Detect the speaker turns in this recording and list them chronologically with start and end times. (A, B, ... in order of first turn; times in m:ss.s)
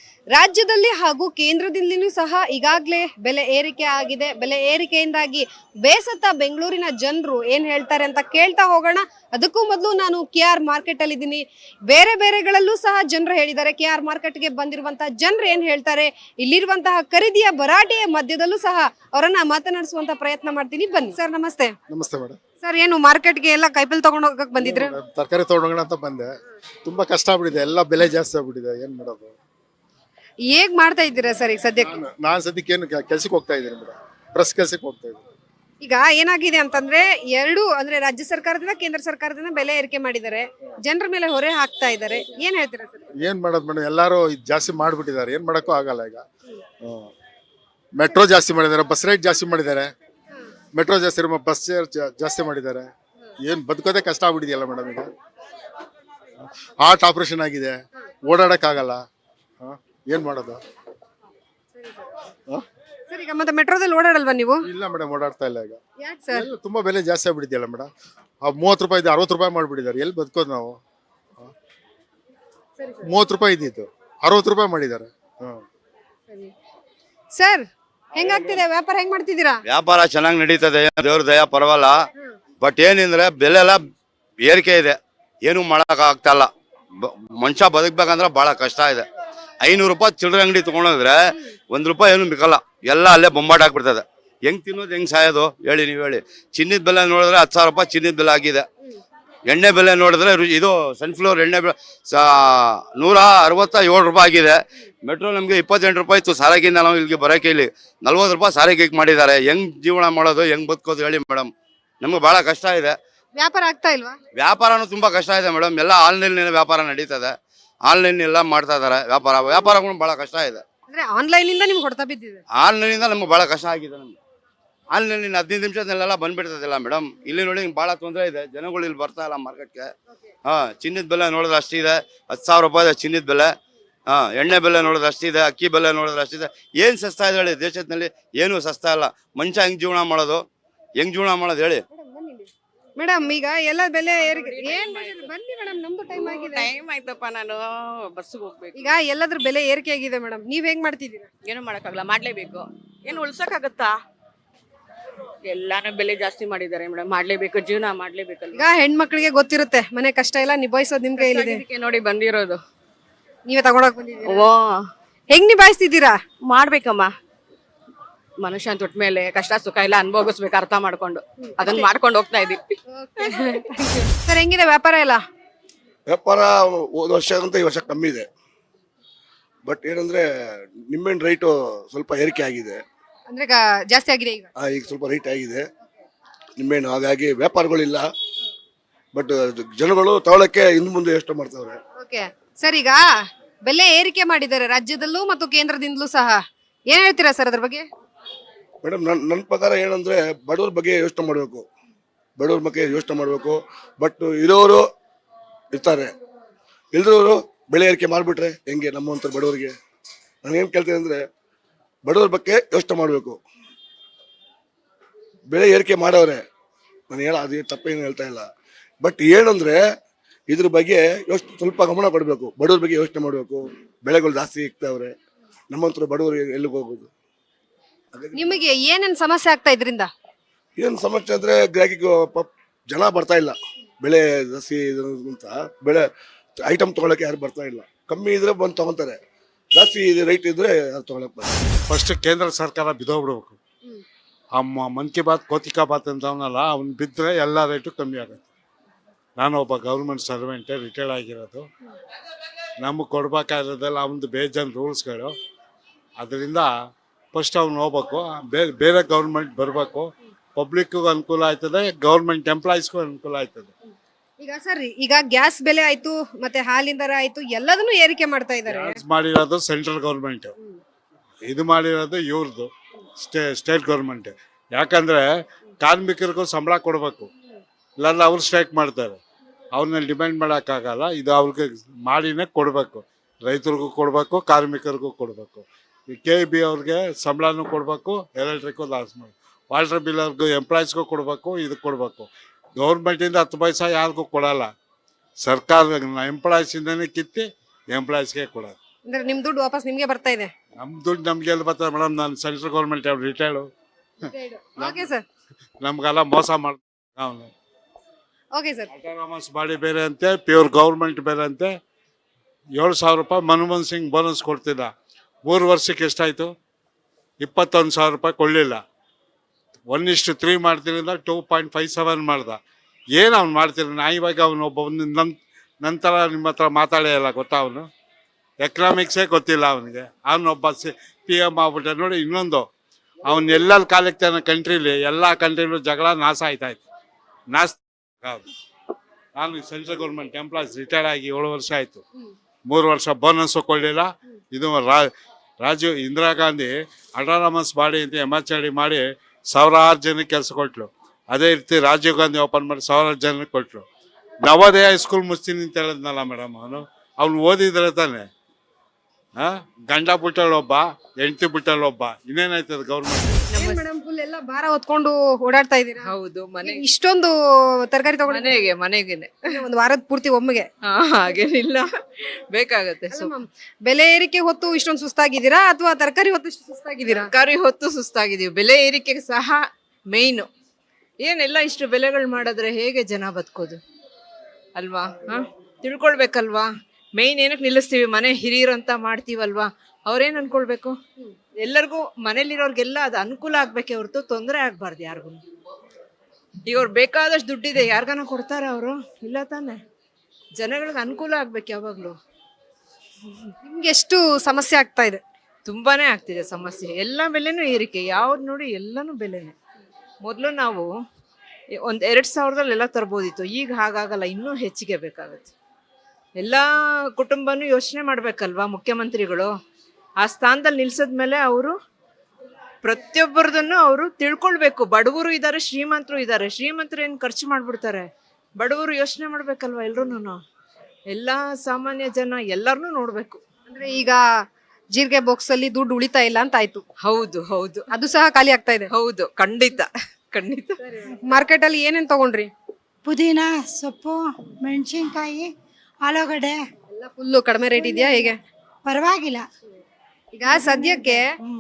0:00.3-0:21.8 A
0:21.9-0:22.4 B
0:22.6-0:24.9 A
0:24.6-0:26.3 B
0:26.9-0:29.3 B
0:30.5-0:32.0 A
0:31.8-0:35.2 B
0:35.8-0:43.1 A
0:43.2-0:46.2 B
0:46.8-0:47.1 B
0:48.0-0:49.9 B
0:50.8-0:52.9 B
0:53.4-0:55.1 B
0:56.8-0:59.0 B
0:59.6-1:00.6 B
1:01.8-1:02.0 A
1:03.1-1:04.6 A
1:04.6-1:05.8 B
1:06.0-1:06.4 A
1:06.3-1:07.9 B
1:08.4-1:10.8 B
1:12.8-1:13.1 A
1:13.0-1:15.6 B
1:17.4-1:17.6 A
1:18.2-1:19.6 A
1:19.7-1:22.0 C
1:22.6-1:23.8 C
1:24.4-1:29.1 C
1:29.6-1:31.2 C
1:31.7-1:38.7 C
1:39.5-1:51.5 C
1:52.0-1:53.0 C
1:53.4-1:54.2 A
1:54.4-1:57.3 C
1:57.9-2:00.6 C
2:00.9-2:02.4 A
2:02.6-2:04.2 C
2:04.9-2:09.9 C
2:10.5-2:13.5 C
2:14.1-2:20.4 C
2:21.0-2:21.8 C
2:21.9-2:26.7 A
2:24.2-2:25.3 D
2:26.1-2:28.9 D
2:28.8-2:31.3 A
2:31.4-2:33.9 D
2:35.4-2:38.6 D
2:38.6-2:41.6 A
2:41.2-2:42.6 D
2:43.5-2:44.5 A
2:44.2-2:44.8 D
2:45.3-2:46.2 A
2:46.5-2:47.1 D
2:48.4-2:52.6 D
2:51.6-2:51.9 A
2:53.0-2:55.2 A
2:56.1-2:58.3 E
2:59.7-3:00.2 E
3:00.9-3:02.8 E
3:03.3-3:04.5 A
3:04.6-3:05.6 E
3:06.6-3:08.0 E
3:09.2-3:11.8 E
3:12.0-3:13.0 A
3:13.7-3:17.9 A
3:18.8-3:21.7 E
3:22.4-3:24.8 E
3:25.7-3:26.1 E
3:26.9-3:29.7 E
3:30.5-3:31.2 E
3:32.1-3:33.4 E
3:35.5-3:36.4 E
3:37.1-3:38.5 E
3:39.0-3:39.8 E
3:40.5-3:45.1 E
3:45.7-3:47.1 E
3:48.4-3:50.1 A
3:50.8-3:56.0 E
3:56.7-3:59.2 E
3:59.8-4:01.6 E
4:01.9-4:03.6 F
4:04.6-4:08.4 F
4:09.4-4:11.7 F
4:12.8-4:15.3 F
4:16.2-4:16.7 F
4:17.3-4:23.7 F
4:24.4-4:29.0 A
4:28.7-4:30.5 F
4:31.5-4:35.2 F
4:35.8-4:37.3 F
4:38.0-4:39.2 F
4:39.8-4:54.7 F
4:55.4-4:58.8 F
4:59.1-5:00.5 A
5:00.8-5:03.7 F
5:04.3-5:05.2 A
5:04.8-5:05.1 F
5:05.8-5:07.5 F
5:08.6-5:08.9 A
5:08.9-5:11.7 F
5:12.8-5:14.9 F
5:15.5-5:16.5 F
5:17.4-5:18.8 F
5:19.9-5:22.6 F
5:23.2-5:27.9 F
5:28.6-5:32.7 F
5:33.3-5:36.8 F
5:37.5-5:38.4 F
5:39.4-5:42.0 F
5:42.7-5:45.1 F
5:45.6-5:53.8 F
5:54.4-5:58.3 F
5:59.4-6:03.5 F
6:03.5-6:03.8 G
6:03.6-6:06.1 A
6:06.1-6:06.8 G
6:06.6-6:07.4 A
6:07.9-6:08.5 A
6:08.3-6:09.4 G
6:09.5-6:10.7 A
6:10.9-6:11.8 G
6:12.5-6:13.3 G
6:13.1-6:17.3 A
6:17.1-6:20.5 G
6:21.2-6:23.8 G
6:24.8-6:31.0 G
6:31.6-6:35.4 G
6:36.7-6:39.8 G
6:40.6-6:42.2 G
6:43.6-6:45.2 A
6:45.7-6:49.6 G
6:50.2-6:50.9 G
6:51.7-6:55.5 G
6:56.4-6:59.5 G
7:00.2-7:01.8 G
7:02.8-7:10.4 G
7:11.1-7:13.4 G
7:13.7-7:14.2 A
7:14.9-7:16.8 A
7:17.0-7:17.9 G
7:17.9-7:18.9 A
7:18.9-7:20.8 G
7:20.8-7:22.5 A
7:23.1-7:25.5 H
7:26.1-7:26.6 H
7:26.9-7:28.4 A
7:28.9-7:29.5 H
7:30.4-7:31.3 A